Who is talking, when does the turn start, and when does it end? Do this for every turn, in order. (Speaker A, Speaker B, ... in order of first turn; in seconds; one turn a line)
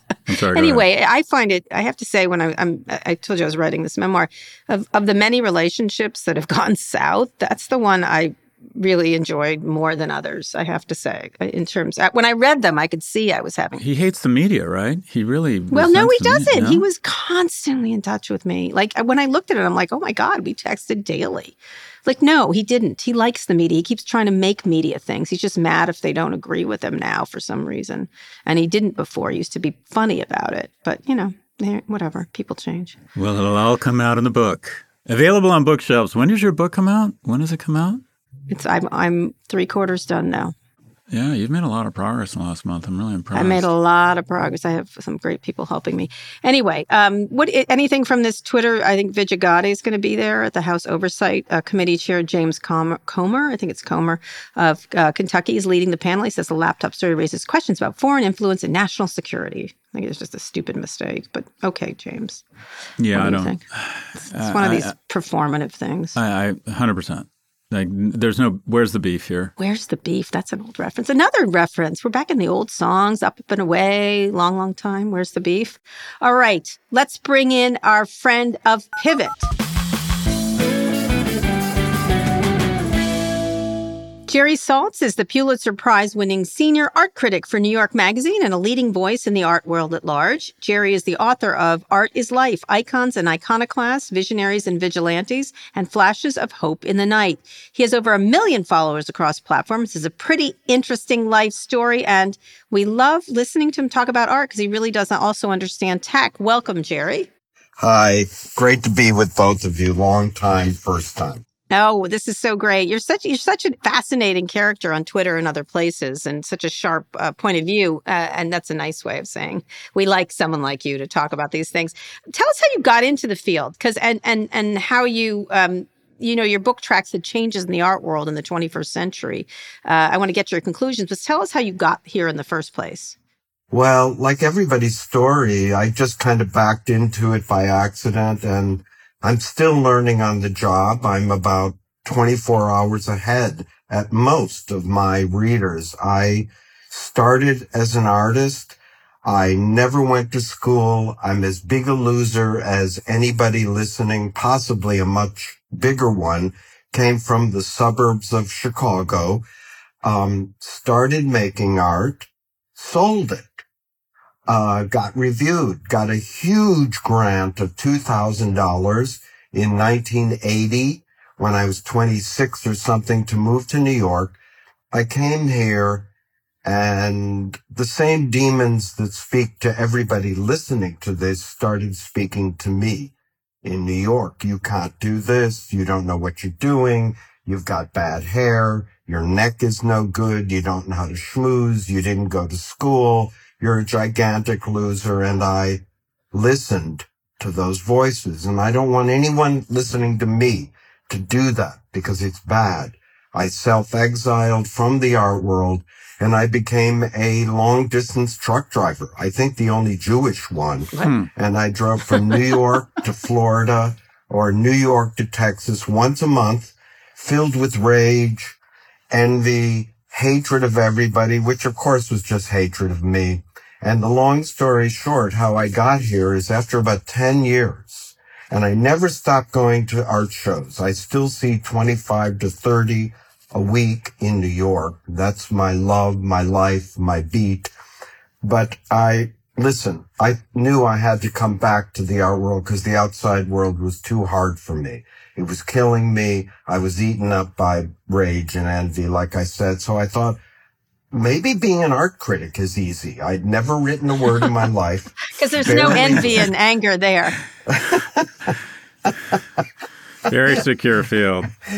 Speaker A: 0.3-0.8
Speaker B: 0.5-13.8
Speaker A: 13.8-16.8
Speaker B: 15.7-33.0
Speaker A: 33.1-38.0
Speaker B: 38.5-40.5
Speaker A: 41.1-43.7
Speaker B: 43.3-62.4
Speaker A: 63.0-64.9
Speaker B: 63.1-63.6
Speaker B: 64.2-66.2
Speaker A: 66.2-69.5
Speaker B: 69.6-79.5
Speaker B: 84.3-107.3
Speaker C: 107.8-111.4
Speaker B: 111.7-133.2
Speaker C: 133.7-159.4
Speaker C: 160.0-163.6
Speaker C: 164.5-174.4
Speaker C: 174.9-176.1
Speaker C: 176.6-218.6
Speaker A: 211.0-211.3
Speaker C: 219.1-237.7
Speaker C: 238.4-250.4
Speaker C: 251.1-256.5
Speaker B: 255.3-257.3
Speaker A: 255.7-256.2
Speaker C: 257.7-258.5
Speaker C: 259.1-259.4
Speaker A: 260.3-261.5